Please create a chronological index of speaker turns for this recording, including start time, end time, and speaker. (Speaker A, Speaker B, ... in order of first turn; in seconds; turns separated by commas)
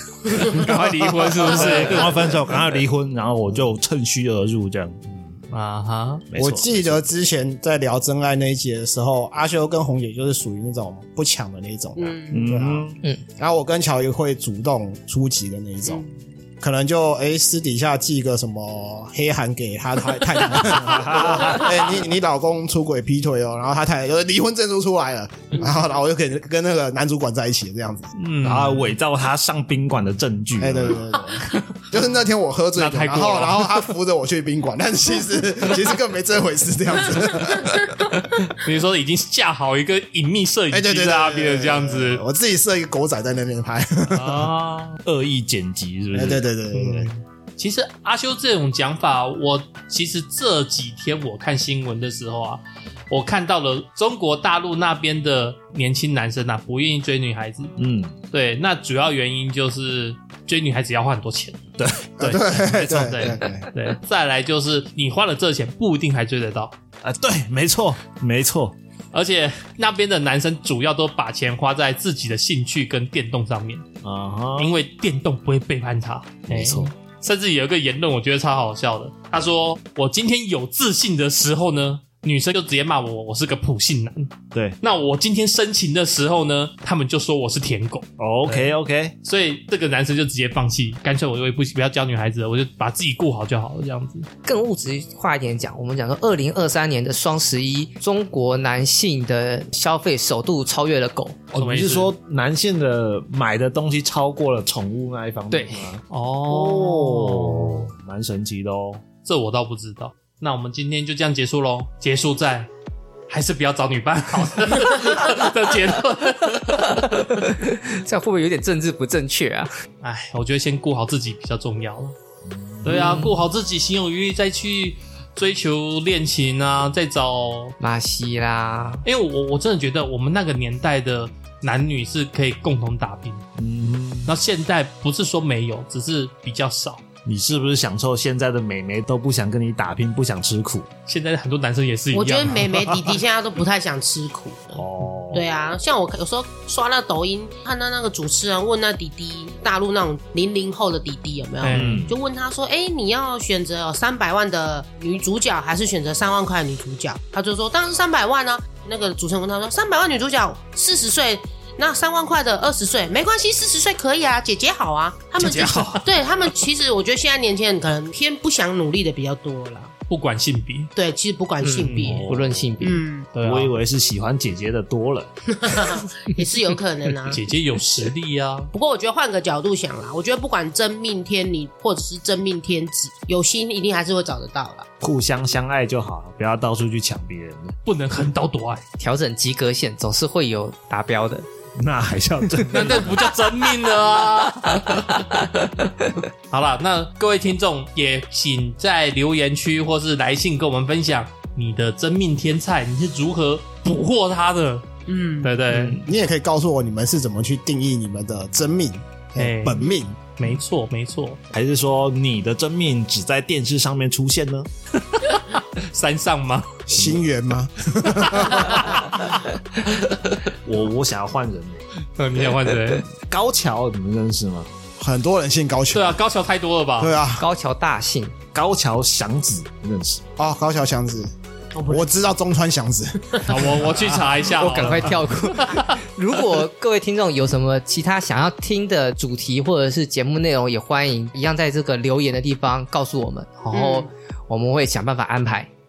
Speaker A: 0.2-5.0, Speaker B: 0.3-2.3, Speaker B: 5.5-6.2, Speaker A: 6.3-7.0, Speaker C: 6.4-12.8, Speaker D: 11.9-12.5, Speaker A: 12.3-13.0, Speaker C: 13.4-16.0, Speaker C: 16.6-28.1, Speaker A: 20.6-21.7, Speaker B: 28.2-28.9, Speaker A: 28.3-31.0, Speaker C: 30.6-37.9, Speaker B: 32.8-33.8, Speaker B: 38.5-42.2, Speaker C: 40.7-44.5, Speaker A: 44.1-46.4, Speaker C: 46.1-47.1, Speaker B: 46.7-57.7, Speaker A: 57.8-58.1, Speaker B: 58.3-61.6, Speaker A: 61.8-62.1, Speaker C: 62.2-63.7, Speaker B: 62.2-66.7, Speaker A: 67.0-68.7, Speaker B: 69.1-73.8, Speaker A: 74.0-74.7, Speaker B: 74.6-94.3, Speaker A: 76.5-76.9, Speaker A: 88.2-89.1, Speaker E: 94.4-101.5, Speaker A: 101.5-109.0, Speaker B: 101.5-102.1, Speaker E: 105.5-105.9, Speaker B: 106.1-107.9, Speaker B: 109.2-112.7, Speaker B: 113.3-117.1, Speaker E: 117.0-119.7, Speaker B: 120.0-122.1, Speaker A: 122.5-123.2, Speaker B: 122.8-127.7, Speaker E: 122.9-123.4, Speaker E: 127.8-129.0, Speaker B: 129.0-133.4, Speaker A: 133.6-134.3, Speaker B: 134.2-137.0, Speaker A: 137.2-140.9, Speaker B: 141.1-142.7, Speaker D: 142.1-169.9, Speaker A: 144.8-145.4, Speaker B: 151.6-152.1, Speaker A: 151.7-152.1, Speaker A: 165.4-166.0, Speaker B: 170.1-170.9, Speaker D: 170.9-172.2, Speaker E: 171.6-173.0, Speaker B: 171.8-172.2, Speaker A: 172.1-172.7, Speaker D: 172.8-173.3, Speaker B: 173.3-173.7, Speaker A: 173.4-175.3, Speaker D: 175.5-177.4, Speaker B: 177.3-178.7, Speaker D: 178.7-184.9, Speaker A: 185.0-187.8, Speaker B: 187.8-188.8, Speaker E: 189.0-191.4, Speaker A: 191.8-193.3, Speaker B: 192.7-195.9, Speaker B: 196.5-204.8, Speaker D: 205.1-205.6, Speaker B: 205.4-206.0, Speaker A: 205.7-206.0, Speaker C: 206.0-210.2, Speaker B: 209.4-209.9, Speaker B: 210.4-211.4, Speaker A: 211.5-214.7, Speaker B: 215.1-216.8, Speaker C: 216.9-218.9, Speaker B: 218.4-219.2, Speaker A: 220.6-221.8, Speaker B: 222.2-223.0, Speaker A: 223.1-224.7, Speaker C: 225.0-226.2, Speaker B: 225.9-227.2, Speaker C: 227.0-227.4, Speaker E: 227.4-228.3, Speaker A: 228.5-230.2, Speaker C: 230.4-231.3, Speaker D: 231.7-232.1, Speaker C: 231.9-233.9, Speaker B: 233.5-235.9, Speaker E: 234.5-245.7, Speaker D: 243.7-244.1